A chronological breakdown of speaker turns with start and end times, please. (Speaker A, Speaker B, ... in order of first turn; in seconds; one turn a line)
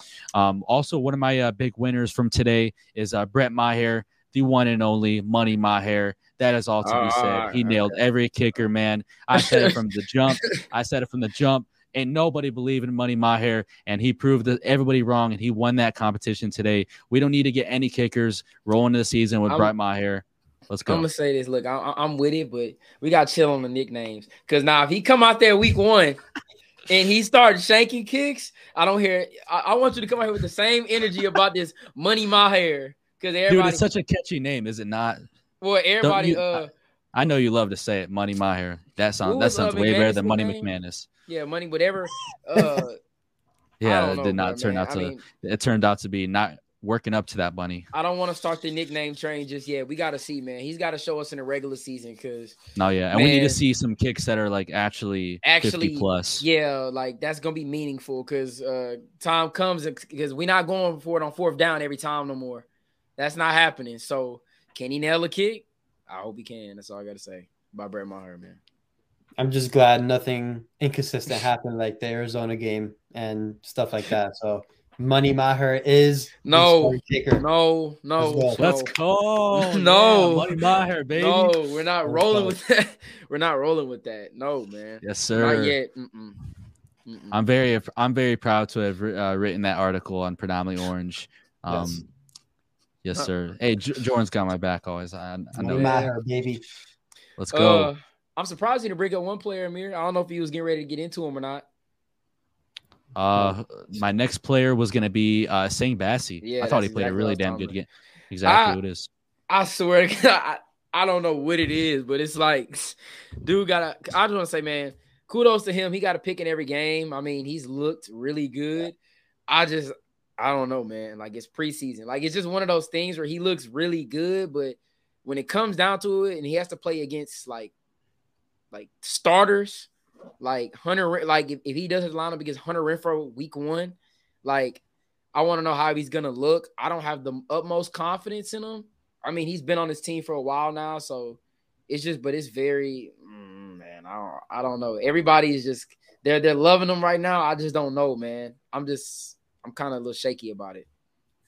Speaker A: 0.3-21.1
Speaker B: 6.8-8.0
Speaker B: 9.3-9.7
Speaker B: 20.9-26.2
Speaker B: 26.9-33.8
Speaker A: 33.5-35.2
Speaker B: 35.6-36.7
Speaker A: 36.0-36.6
Speaker A: 37.1-41.1
Speaker B: 39.2-40.7
Speaker B: 41.3-43.0
Speaker A: 43.8-47.9
Speaker B: 43.8-45.2
Speaker B: 47.9-52.6
Speaker A: 52.8-56.4
Speaker B: 53.1-53.6
Speaker B: 55.4-62.6
Speaker B: 63.2-68.6
Speaker C: 69.4-77.5
Speaker B: 76.4-78.9
Speaker C: 78.2-78.6
Speaker A: 78.6-81.5
Speaker B: 79.5-80.6
Speaker B: 81.1-86.4
Speaker C: 82.0-82.5
Speaker A: 85.0-85.7
Speaker B: 87.0-87.4
Speaker A: 87.3-92.0
Speaker C: 91.7-92.0
Speaker A: 93.0-96.1
Speaker C: 95.6-96.6
Speaker A: 97.4-97.9
Speaker B: 97.5-101.6
Speaker A: 103.1-109.1
Speaker B: 106.4-107.8
Speaker B: 108.4-108.8
Speaker B: 109.5-119.0
Speaker B: 119.5-127.7
Speaker B: 128.7-129.9
Speaker B: 130.4-134.8
Speaker B: 135.3-150.8